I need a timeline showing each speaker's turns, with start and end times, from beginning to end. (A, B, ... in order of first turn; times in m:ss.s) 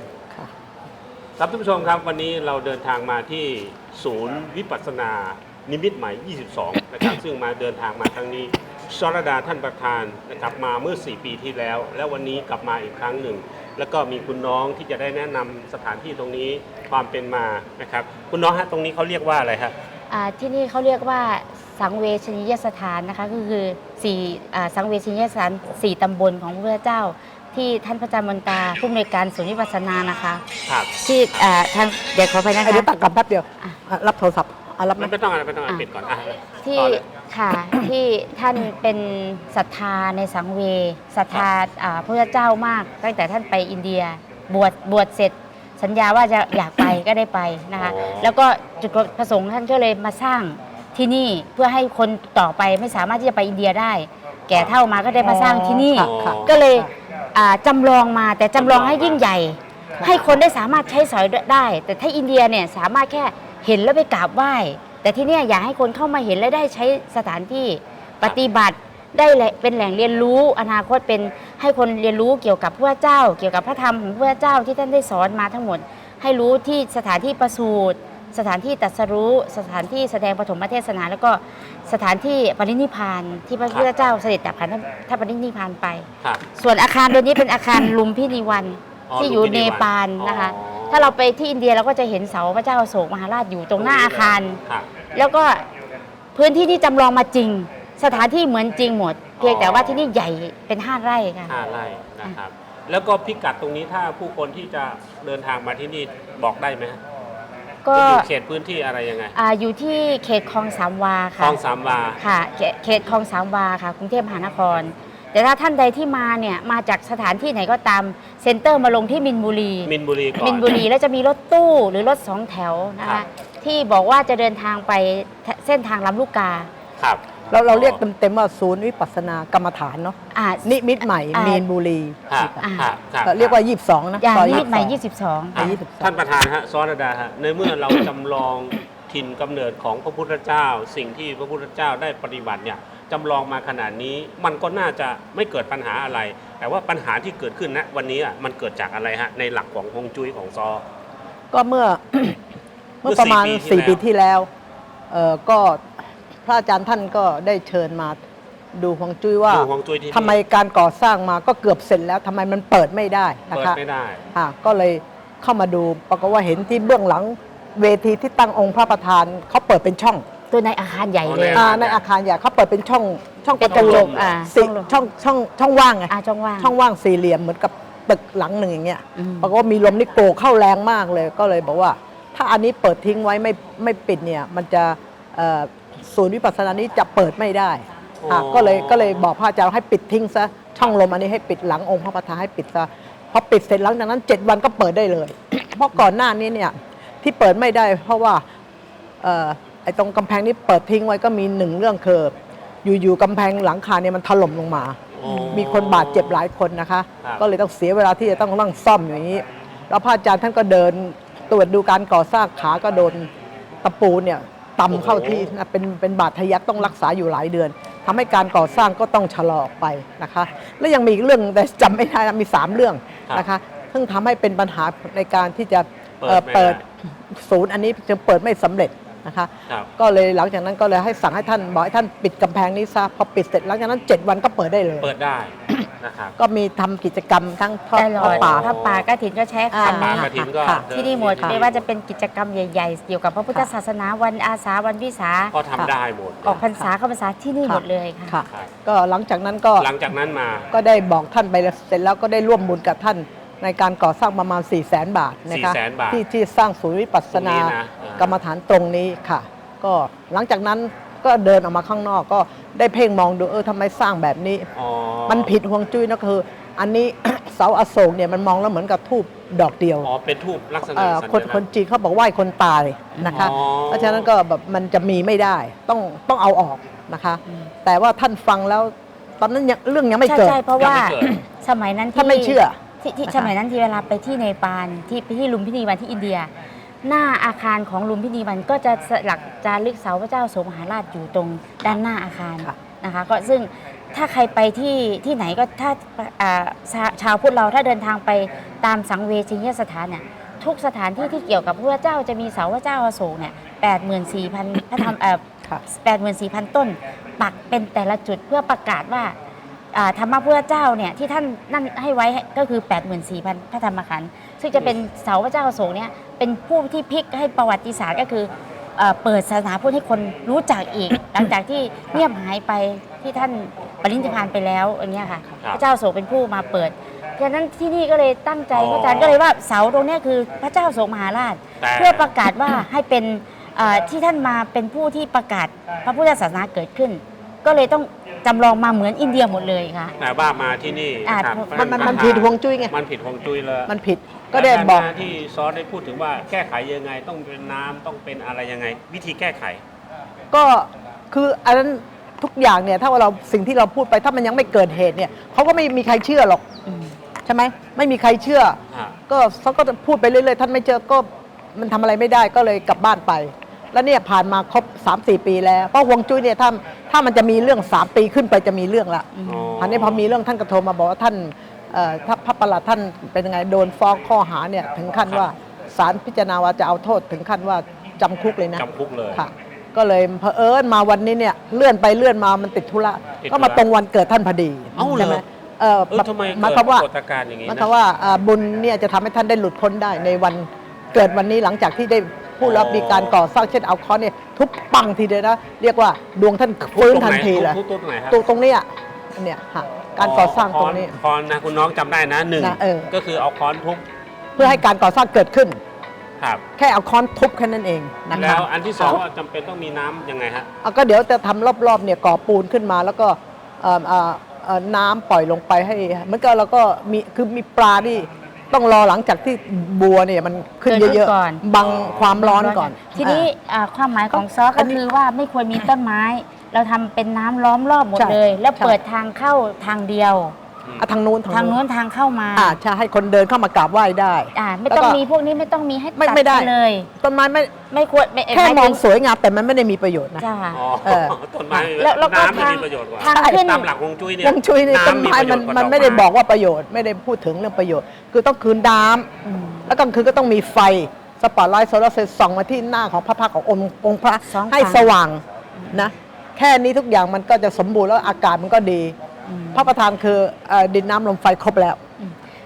0:01.4-0:19.8 A
0:20.1-0:30.4 B
0:30.7-0:31.4 A
0:31.0-0:33.0 B
0:32.6-0:35.1 C
0:35.0-0:37.0 A
0:36.6-1:34.6 B
0:47.8-0:48.3 A
0:55.2-0:56.9 C
0:56.0-0:56.6 A
0:58.6-0:59.2 A
1:00.0-1:00.4 C
1:29.1-1:31.1 A
1:33.8-1:34.9 A
1:35.1-1:35.7 B
1:36.4-1:41.6 B
1:39.4-1:40.1 A
1:41.5-1:47.0 A
1:47.8-1:48.3 B
1:47.9-1:49.4 A
1:49.3-1:51.6 B
1:51.4-1:52.2 A
1:52.2-2:06.7 B
1:59.8-2:00.8 A
2:07.0-2:08.0 A
2:07.5-2:12.7 C
2:10.3-2:10.7 B
2:11.3-2:11.6 B
2:12.3-2:13.6 A
2:12.6-2:12.9 B
2:13.2-2:15.0 C
2:14.2-2:15.8 B
2:15.6-2:16.1 C
2:15.6-2:30.8 A
2:31.5-2:32.4 C
2:33.0-2:34.5 C
2:33.0-2:34.0 A
2:35.1-2:35.9 C
2:36.4-2:38.2 C
2:38.7-2:43.8 C
2:39.5-2:40.4 A
2:43.5-2:44.3 A
2:44.3-2:50.2 C
2:50.5-2:51.7 B
2:51.2-2:52.0 A
2:51.6-3:18.4 C
2:53.6-2:55.0 B
2:53.6-2:54.3 A
2:56.1-2:56.7 B
2:59.2-2:59.5 B
3:08.2-3:09.3 A
3:19.2-3:33.3 C
3:25.1-3:26.4 A
3:25.3-3:25.6 B
3:33.8-3:55.1 C
3:34.9-3:35.5 A
3:46.2-3:46.8 A
3:55.0-3:56.4 A
3:55.7-3:58.7 C
3:57.9-4:00.3 B
3:58.2-3:59.0 A
3:59.7-4:00.9 C
3:59.8-4:01.8 A
4:00.9-4:05.5 B
4:05.5-4:06.6 A
4:06.4-4:08.4 B
4:07.6-4:09.9 C
4:09.8-4:10.7 A
4:10.7-4:24.7 C
4:15.5-4:16.2 A
4:17.3-4:18.4 A
4:24.7-4:25.5 A
4:25.3-4:30.1 C
4:30.0-4:31.7 A
4:30.8-4:40.7 C
4:33.2-4:33.5 B
4:33.2-4:34.3 A
4:40.2-4:46.5 B
4:40.8-4:41.4 A
4:42.2-4:43.5 C
4:47.0-5:09.4 B
5:09.9-5:40.2 B
5:28.7-5:29.4 A
5:31.8-5:32.5 A
5:40.2-5:43.9 A
5:41.2-5:42.3 B
5:41.7-5:43.0 C
5:43.9-5:45.2 C
5:44.5-5:49.8 A
5:50.5-5:56.6 C
5:56.9-5:57.2 B
5:57.4-6:27.1 C
5:58.9-5:59.2 A
6:09.4-6:09.7 B
6:09.4-6:10.3 A
6:18.8-6:19.4 A
6:23.4-6:23.8 A
6:25.0-6:25.4 A
6:26.1-6:27.9 A
6:27.7-6:37.8 C
6:32.6-6:33.4 A
6:36.9-6:38.4 A
6:38.3-6:41.2 C
6:40.2-6:44.0 A
6:42.6-6:43.1 C
6:44.6-6:45.8 C
6:46.8-6:49.2 C
6:48.3-6:50.7 A
6:50.8-7:03.5 C
7:00.9-7:01.6 B
7:01.8-7:02.4 A
7:02.4-7:10.6 B
7:04.3-7:05.0 C
7:08.2-7:09.0 C
7:11.0-7:11.8 C
7:11.5-7:12.8 B
7:12.6-7:15.2 C
7:14.6-7:17.1 B
7:16.2-7:17.7 C
7:17.9-7:19.0 B
7:18.5-7:20.5 C
7:20.4-7:20.8 B
7:20.7-7:26.3 A
7:21.0-7:21.9 C
7:21.8-7:23.9 B
7:23.3-7:23.7 C
7:24.4-7:29.3 C
7:29.5-7:29.9 B
7:29.8-7:39.2 C
7:34.4-7:35.2 B
7:35.8-7:36.0 B
7:39.5-7:39.9 B
7:39.7-7:42.0 C